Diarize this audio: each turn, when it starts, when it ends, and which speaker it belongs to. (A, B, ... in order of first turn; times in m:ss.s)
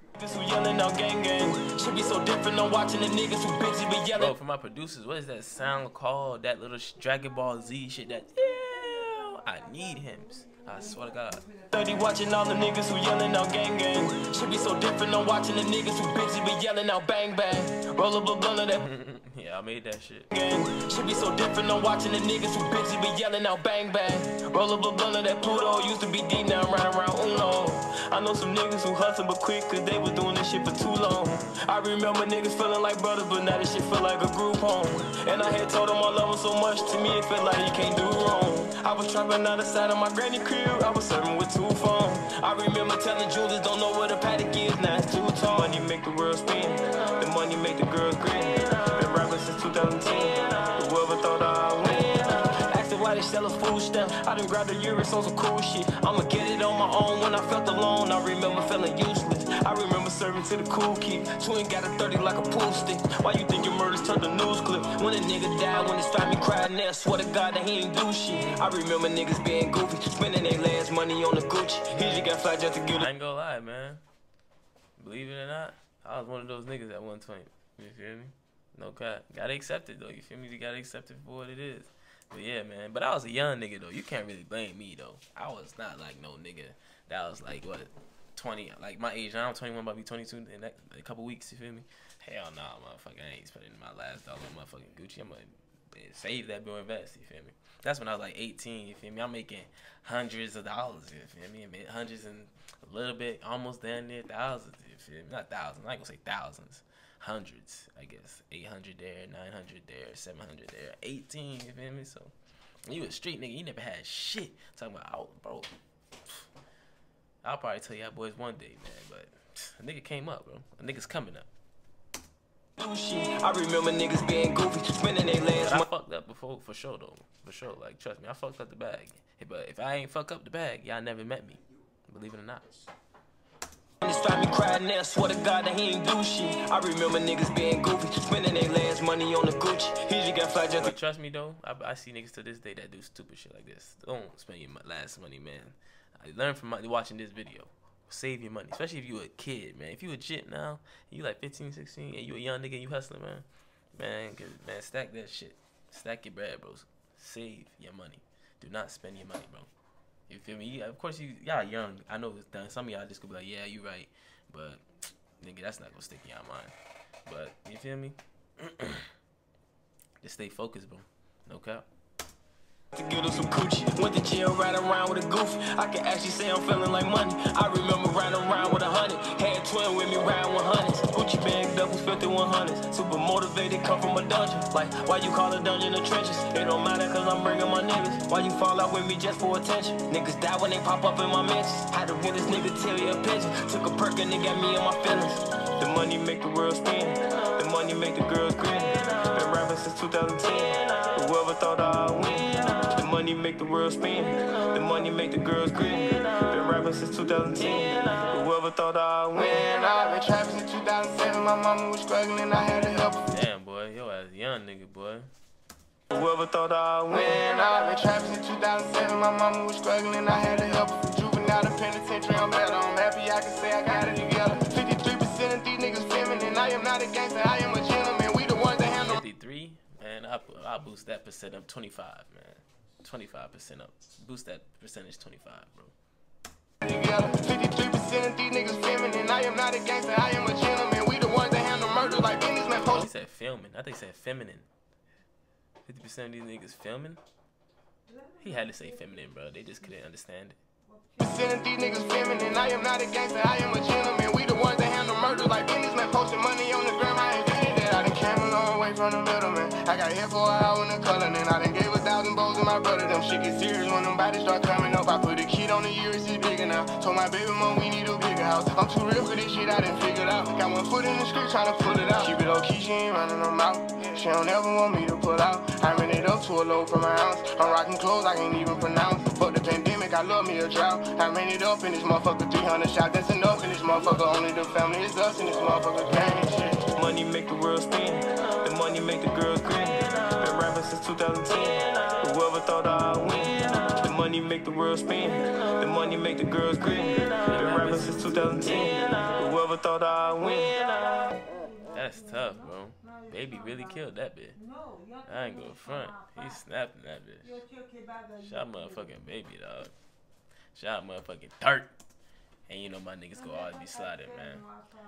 0:00.2-0:04.3 A
0:04.1-0:11.5 B
0:11.7-0:18.8 A
0:18.8-0:20.3 B
0:20.3-1:13.1 A
1:12.0-1:12.3 B
1:12.9-1:14.0 B
1:15.0-1:52.3 B
1:52.8-1:55.7 B
1:57.4-2:01.5 B
2:02.8-2:05.8 A
2:05.6-2:12.8 B
2:14.0-2:20.9 A
2:20.8-2:39.7 B
2:40.3-2:44.8 B
2:45.4-2:46.7 B
2:47.2-2:49.1 B
2:50.2-2:51.8 B
2:52.9-3:29.6 A
3:29.3-3:33.3 C
3:33.3-3:35.3 B
3:36.1-3:37.3 A
3:37.1-3:49.2 C
3:49.0-3:55.9 B
3:56.8-4:03.0 C
4:02.8-4:04.7 B
4:05.8-4:07.2 B
4:08.4-4:10.6 B
4:11.2-4:46.8 C
4:46.9-5:01.2 A
4:57.3-4:59.3 B
5:01.9-5:04.6 B
5:05.2-5:07.6 B
5:08.4-5:09.9 B
5:10.7-5:11.9 B
5:12.7-5:14.6 B